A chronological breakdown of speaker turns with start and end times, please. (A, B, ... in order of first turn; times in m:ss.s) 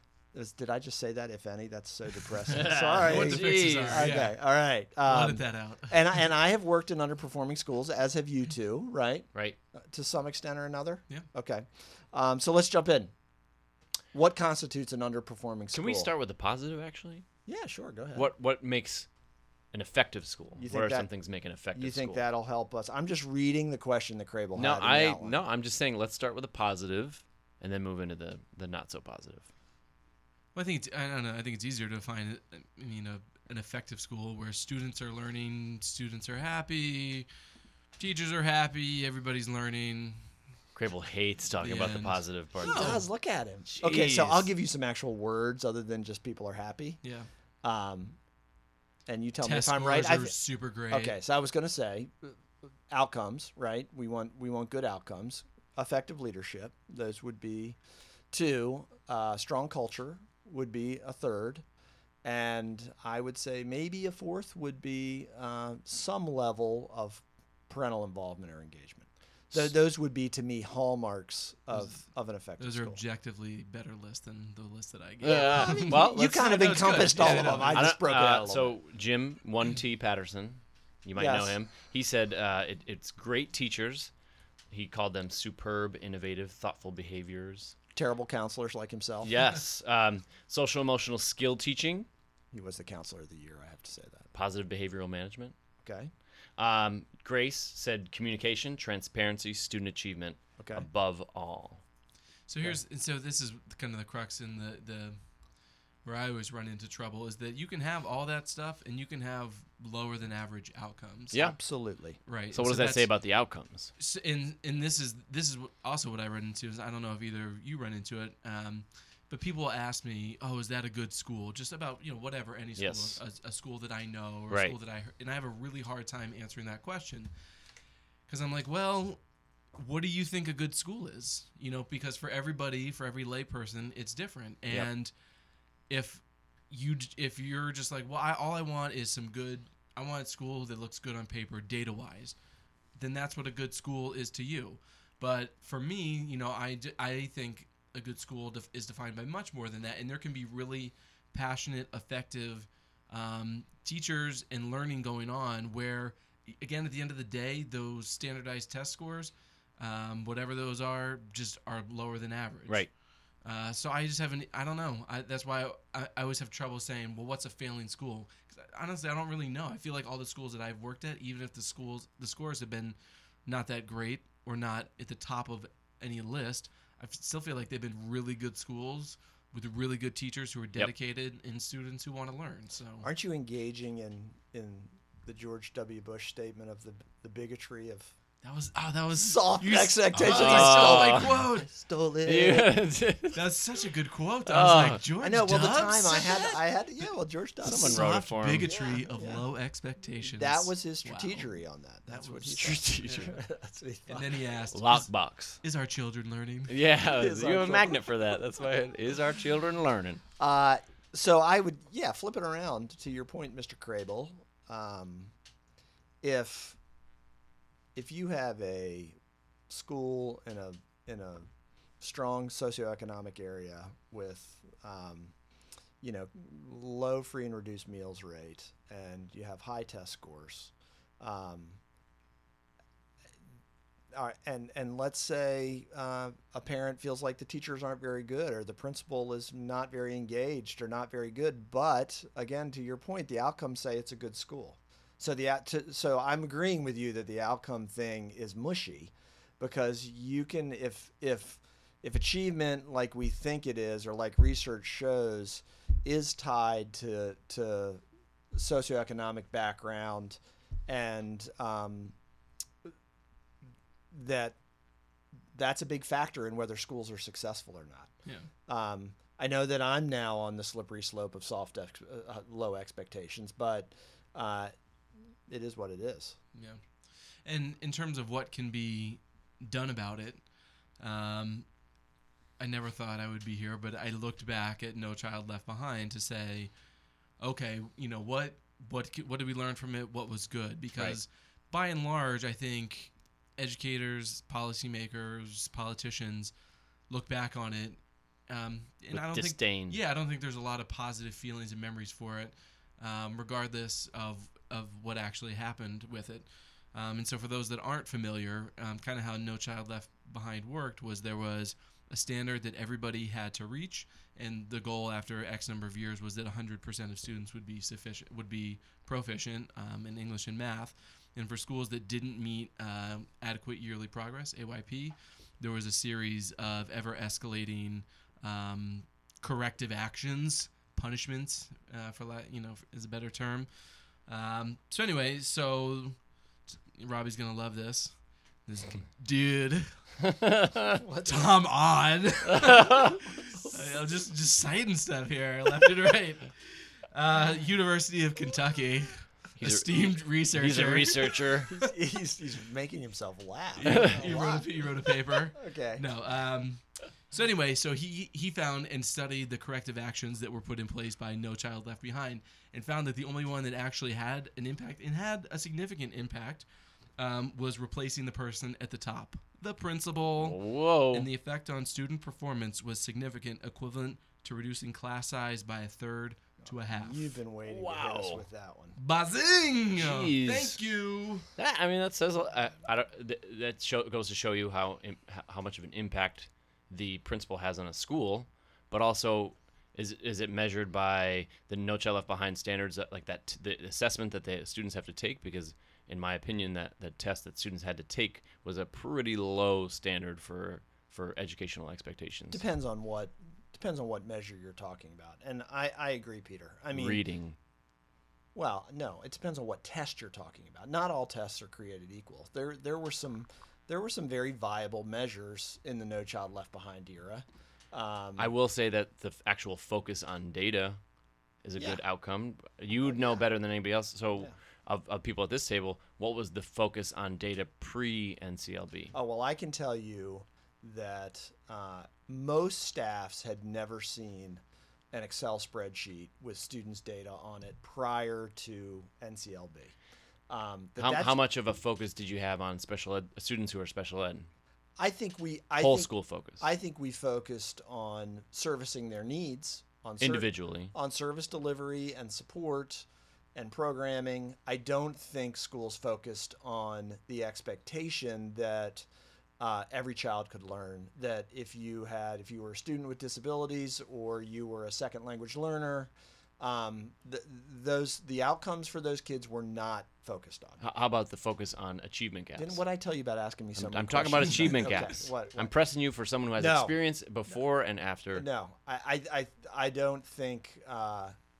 0:00.3-0:13.1 A
0:02.5-0:04.1 B
0:03.0-0:04.4 C
0:05.0-0:06.2 C
0:14.1-0:16.1 A
0:15.7-0:17.2 B
0:17.4-0:18.3 A
0:18.1-0:19.1 B
0:19.7-0:22.2 B
0:20.6-0:21.1 A
0:21.7-0:25.4 A
0:24.5-0:29.5 B
0:30.5-0:37.3 C
0:38.0-0:40.2 C
0:40.7-0:43.0 B
0:41.6-0:43.0 C
0:42.6-0:47.0 A
0:43.7-0:44.5 B
0:47.0-0:47.3 C
0:47.6-0:48.2 A
0:49.0-0:50.4 A
0:49.4-0:51.2 C
0:50.9-0:52.4 A
0:52.9-0:57.8 A
0:58.3-1:01.6 A
1:02.2-1:13.0 A
1:12.6-1:17.9 C
1:15.2-1:24.1 B
1:15.3-1:18.7 A
1:21.2-1:21.6 A
1:24.7-1:27.7 B
1:27.9-1:29.3 A
1:29.2-1:32.1 B
1:32.5-1:34.3 A
1:34.3-1:35.5 B
1:35.8-1:36.1 A
1:36.6-1:41.8 B
1:40.6-1:40.9 A
1:42.5-1:45.2 C
1:46.0-1:51.4 C
1:51.3-1:51.6 B
1:51.3-1:52.2 A
1:52.2-1:53.1 C
1:52.5-1:53.9 B
1:54.0-2:07.3 C
2:02.8-2:03.2 B
2:08.3-2:09.2 C
2:09.8-2:15.1 C
2:15.9-2:22.4 C
2:23.0-2:42.9 C
2:43.4-3:03.1 C
3:03.0-3:08.1 A
3:08.4-3:11.7 C
3:09.2-3:12.8 A
3:10.2-3:11.4 B
3:12.2-3:13.4 B
3:13.3-3:16.6 C
3:14.4-3:15.0 B
3:15.2-3:18.0 A
3:17.6-3:18.7 B
3:17.6-3:21.5 C
3:18.6-3:19.4 A
3:20.2-3:24.5 A
3:22.1-3:23.3 C
3:22.5-3:23.4 B
3:24.1-3:26.8 C
3:24.7-3:25.6 B
3:26.7-3:30.2 B
3:27.0-3:28.4 A
3:30.4-3:35.3 A
3:36.2-3:36.8 A
3:37.9-3:39.2 A
3:39.7-3:41.5 A
3:42.0-3:45.3 A
3:46.0-3:51.8 A
3:54.1-4:22.1 A
4:24.1-4:24.6 A
4:25.5-4:28.1 A
4:28.7-4:34.7 A
4:35.5-4:36.4 A
4:36.5-4:36.8 C
4:37.4-4:40.4 C
4:41.0-4:41.6 C
4:42.6-4:46.7 C
4:47.4-4:56.5 C
4:57.1-5:33.7 C
4:59.1-5:00.0 B
5:34.3-5:36.2 C
5:36.9-5:38.1 C
5:38.6-5:40.0 C
5:40.2-5:41.0 B
5:41.0-5:41.5 A
5:41.2-5:51.4 C
5:42.5-5:43.1 B
5:49.6-5:51.8 B
5:51.7-5:56.1 A
5:53.8-6:06.6 C
5:53.8-5:54.2 B
6:07.2-6:10.6 C
6:10.4-6:11.3 B
6:11.1-6:17.4 C
6:16.6-6:19.0 A
6:17.6-6:18.4 B
6:19.0-6:21.5 C
6:20.0-6:20.8 B
6:21.6-6:42.6 B
6:42.5-6:47.2 A
6:46.9-6:47.6 B
6:48.5-6:58.5 A
6:58.4-7:01.0 B
7:01.6-7:09.1 B
7:03.1-7:03.4 A
7:09.1-7:19.9 A
7:20.5-7:21.3 A
7:21.0-7:24.5 B
7:25.0-7:39.1 A
7:25.8-7:26.7 B
7:30.2-7:30.9 B
7:39.6-7:50.8 A
7:50.8-7:52.8 B
7:52.6-7:55.7 A
7:53.8-7:58.4 B
7:56.6-7:56.9 A
7:58.3-8:01.3 A